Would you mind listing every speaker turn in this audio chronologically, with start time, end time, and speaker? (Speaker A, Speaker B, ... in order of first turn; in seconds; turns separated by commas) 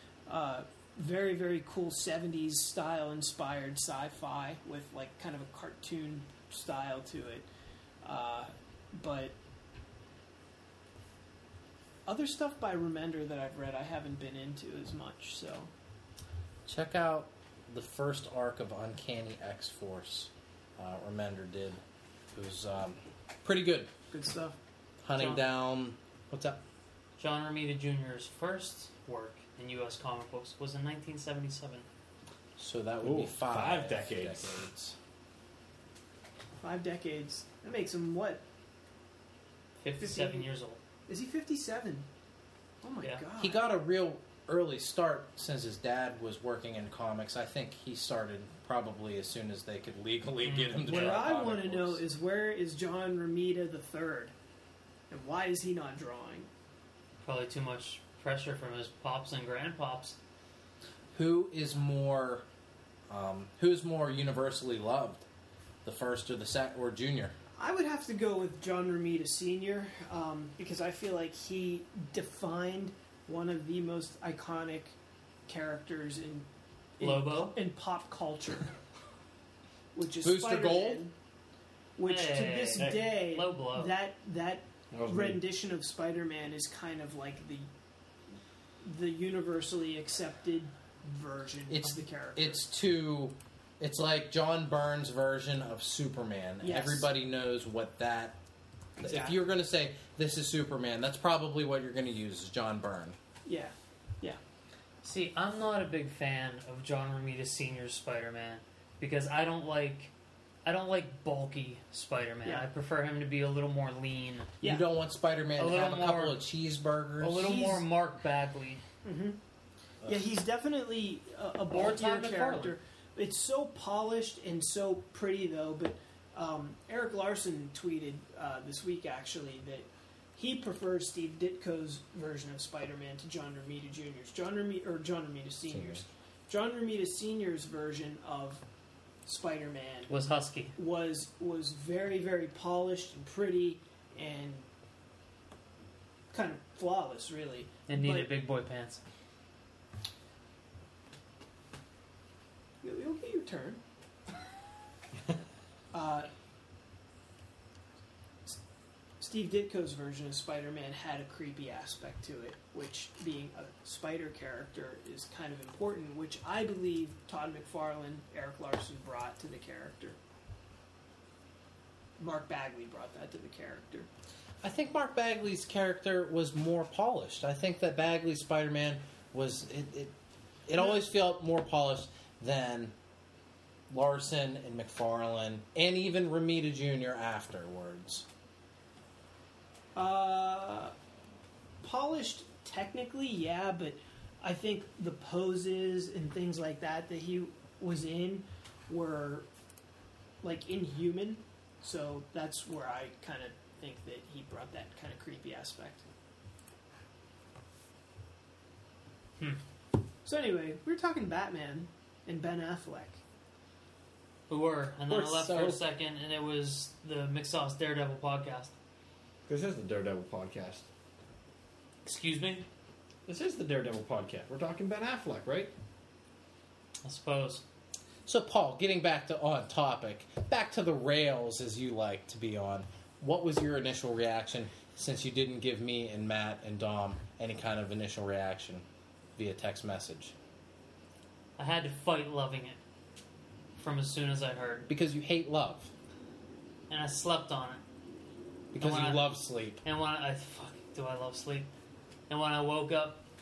Speaker A: 0.3-7.5, Speaker A: 8.0-9.3, Speaker A: 12.1-15.7, Speaker B: 16.7-21.8, Speaker B: 22.3-23.9, Speaker A: 24.1-24.6, Speaker B: 25.0-26.6, Speaker C: 25.2-25.4, Speaker C: 27.2-31.9, Speaker B: 32.6-35.0, Speaker D: 33.0-34.6, Speaker A: 36.6-38.4, Speaker C: 39.8-40.8, Speaker A: 40.0-40.5, Speaker A: 41.1-42.1, Speaker A: 42.8-43.7, Speaker B: 43.4-52.0, Speaker C: 50.4-51.1, Speaker A: 50.8-54.3, Speaker A: 55.1-56.5, Speaker C: 57.2-60.2, Speaker B: 61.1-62.5, Speaker B: 63.1-65.2, Speaker B: 65.8-67.3, Speaker A: 67.6-75.0, Speaker A: 75.5-76.5, Speaker A: 77.0-78.7, Speaker C: 77.0-77.6, Speaker A: 80.0-81.1, Speaker B: 80.2-81.0, Speaker A: 82.0-87.7, Speaker C: 82.1-83.9, Speaker D: 82.8-83.2, Speaker D: 84.9-85.4, Speaker A: 88.8-92.6, Speaker B: 91.7-98.4, Speaker A: 96.6-97.1, Speaker B: 99.0-103.2, Speaker A: 99.0-99.4, Speaker A: 103.5-104.4, Speaker C: 105.0-110.1, Speaker C: 110.6-114.5, Speaker A: 114.6-114.9, Speaker B: 114.6-117.6, Speaker C: 115.6-116.4, Speaker C: 117.2-118.8, Speaker A: 117.3-117.8, Speaker A: 119.0-119.4, Speaker A: 120.0-138.6, Speaker C: 121.7-122.7, Speaker B: 135.7-136.0, Speaker A: 139.2-140.1, Speaker C: 140.1-140.8, Speaker A: 140.8-144.7, Speaker A: 146.3-148.3, Speaker C: 147.9-149.0, Speaker A: 152.8-153.8, Speaker A: 155.9-156.3, Speaker A: 159.2-170.2, Speaker A: 172.2-174.1, Speaker B: 174.6-180.1, Speaker B: 180.7-182.9, Speaker B: 183.9-188.3, Speaker A: 189.9-190.9, Speaker A: 191.8-199.5, Speaker A: 200.4-206.1, Speaker A: 210.2-213.2, Speaker C: 214.5-218.7, Speaker B: 215.1-215.8, Speaker D: 219.5-220.9, Speaker C: 222.1-222.7, Speaker D: 223.3-225.7, Speaker C: 227.0-227.6, Speaker B: 228.3-238.8, Speaker B: 239.4-240.3, Speaker C: 241.6-242.8, Speaker C: 243.8-244.9, Speaker B: 244.9-245.9, Speaker C: 246.9-247.8, Speaker B: 248.7-249.8, Speaker C: 248.8-251.7, Speaker C: 252.3-253.2